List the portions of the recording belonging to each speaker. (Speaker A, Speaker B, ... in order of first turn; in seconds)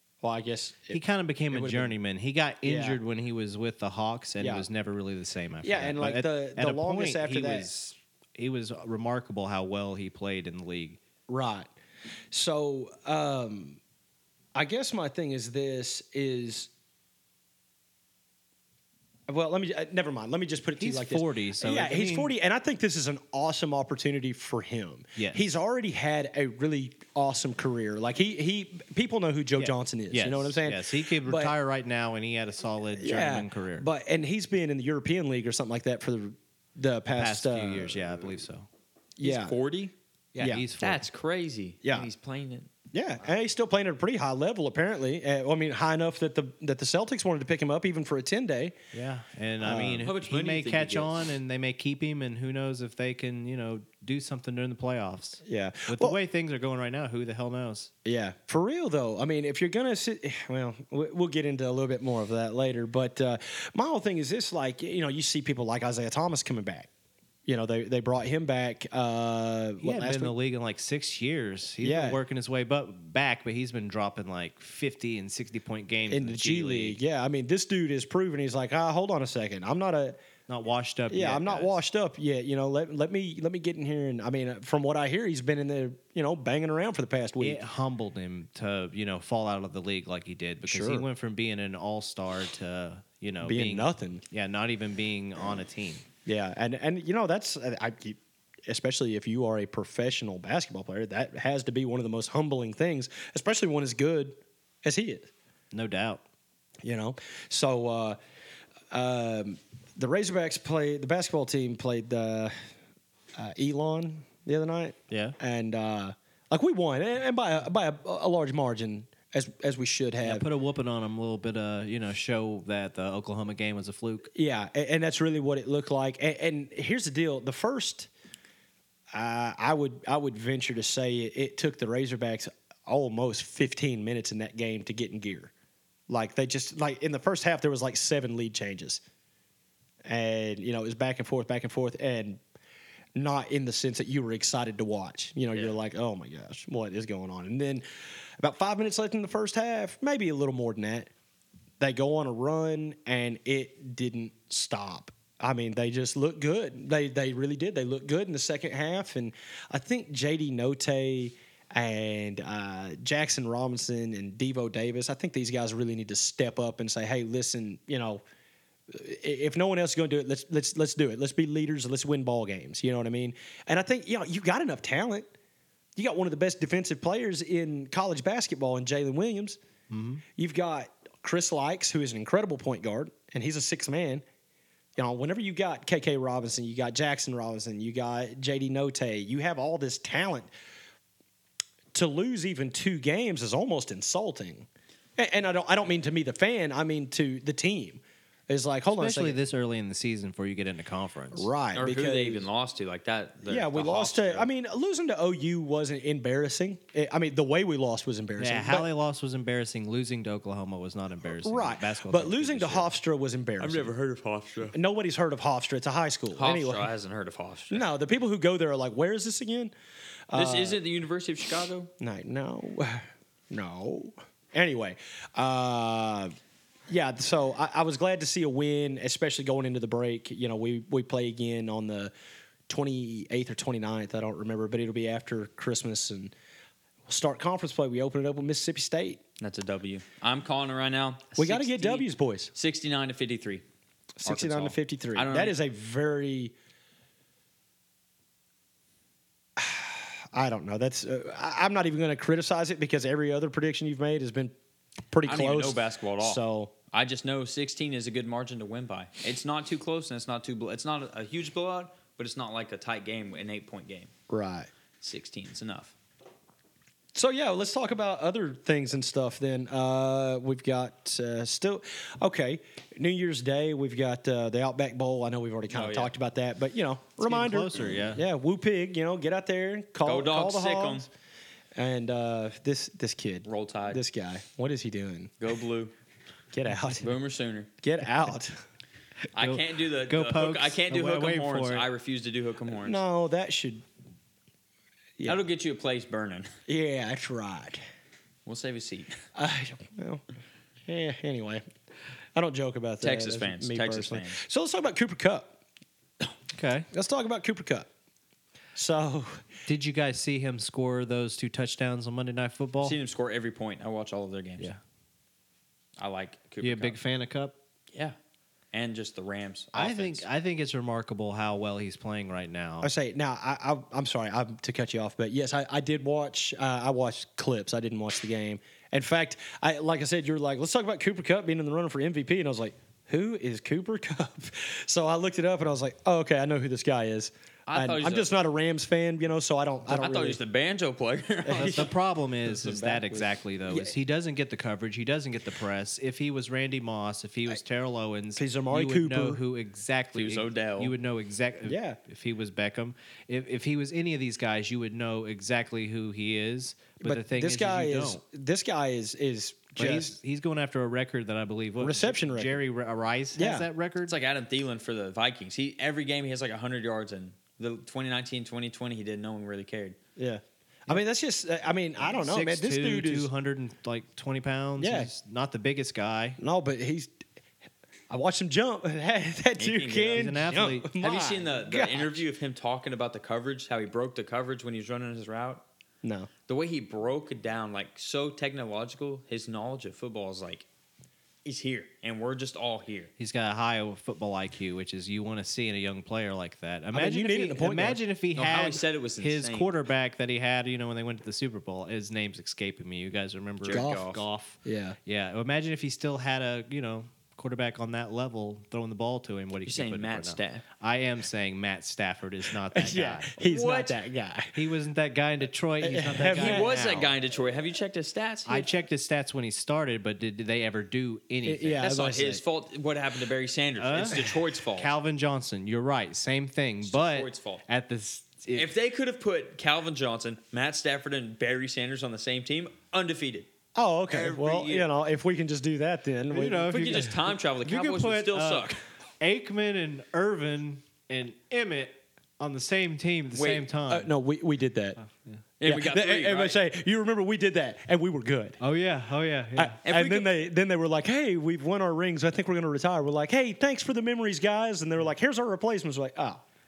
Speaker A: 0.2-1.0, 1.5-1.9, 2.6-3.0, 4.4-4.7, 5.6-7.7, 11.3-11.7, 12.3-13.8, 14.6-16.7, 19.3-31.5, 33.0-38.4, 39.2-39.5, 40.4-40.6, 42.9-48.8, 49.6-50.1, 55.5-56.2, 58.0-66.9, 67.5-70.3, 71.8-72.2, 76.1-80.2, 81.1-87.6, 90.7-91.1, 93.4-94.2, 96.2-105.3, 106.8-108.2, 108.9-112.5, 113.4-120.5, 124.3-128.1, 129.1-135.5, 136.1-139.0, 140.1-142.4, 143.2-147.8, 148.4-151.1, 151.8-168.2, 168.9-175.3, 176.0-179.6, 180.3-184.2, 185.0-190.5, 191.9-199.4, 201.3-202.5, 203.5-208.9, 211.3-213.9, 214.7-216.9, 217.7-219.7, 220.3-220.8, 222.0-226.3, 226.9-232.1, 232.7-236.3, 237.1-239.2, 241.4-242.5, 244.2-246.5, 249.6-254.5, 255.1-256.7, 264.3-264.7, 267.1-281.1, 281.8-285.3, 286.5-287.1, 287.8-288.6, 292.7-293.8, 296.7-297.8, 299.4-300.2, 300.9-301.6, 302.4-305.6, 306.9-307.9, 308.8-309.4, 322.8-340.4, 341.4-341.9, 343.7-343.9, 348.4-349.4, 351.6-352.0, 357.0-360.1, 361.8-362.6, 363.4-363.7, 370.2-373.3, 374.8-375.1, 376.4-377.1, 378.1-382.2, 386.0-386.3, 396.9-398.0, 403.7-404.1, 404.6-405.0, 412.7-414.6, 415.8-416.7, 421.4-422.3, 433.8-437.1, 443.9-445.0, 445.6-448.6, 449.6-456.4
Speaker B: 0.9-11.0, 20.8-22.3, 25.2-25.4, 29.6-33.9, 37.1-38.7, 40.4-41.1, 48.9-57.9, 69.8-77.0, 80.5-81.8, 87.4-96.0, 105.7-106.2, 115.1-115.3, 120.2-124.3, 179.9-180.2, 198.9-201.5, 208.4-212.9, 277.2-278.2, 289.4-291.9, 306.5-306.9, 309.7-313.0, 316.6-317.6, 319.7-322.9, 341.6-358.2, 359.8-364.1, 372.1-376.4, 380.1-380.9, 393.2-413.3, 414.6-417.1, 418.5-422.4, 423.8-428.7, 436.3-444.1, 445.0-445.4, 448.6-449.8
Speaker C: 39.2-39.9, 40.8-42.7, 49.8-51.2, 201.7-204.5, 213.6-214.8, 216.3-217.9, 220.3-221.9, 239.4-243.6, 244.2-245.6, 255.2-264.1, 265.0-265.9, 275.7-276.1, 280.0-281.1, 283.5-284.0, 285.4-285.9, 287.0-287.7, 289.3-293.0, 295.2-296.5, 298.5-299.2, 303.0-304.4, 312.8-314.7, 316.0-317.0, 318.7-320.2, 337.7-338.3, 339.9-341.9, 342.5-343.3, 350.1-350.9, 364.0-370.0, 379.6-385.6, 386.5-390.7, 391.4-393.1, 398.4-399.7, 403.6-404.2, 409.6-410.6, 413.4-414.0, 416.3-418.7, 421.8-424.9, 426.8-427.6, 428.5-433.5, 434.1-434.9, 436.7-438.8, 443.3-443.7, 445.6-446.6, 449.9-450.3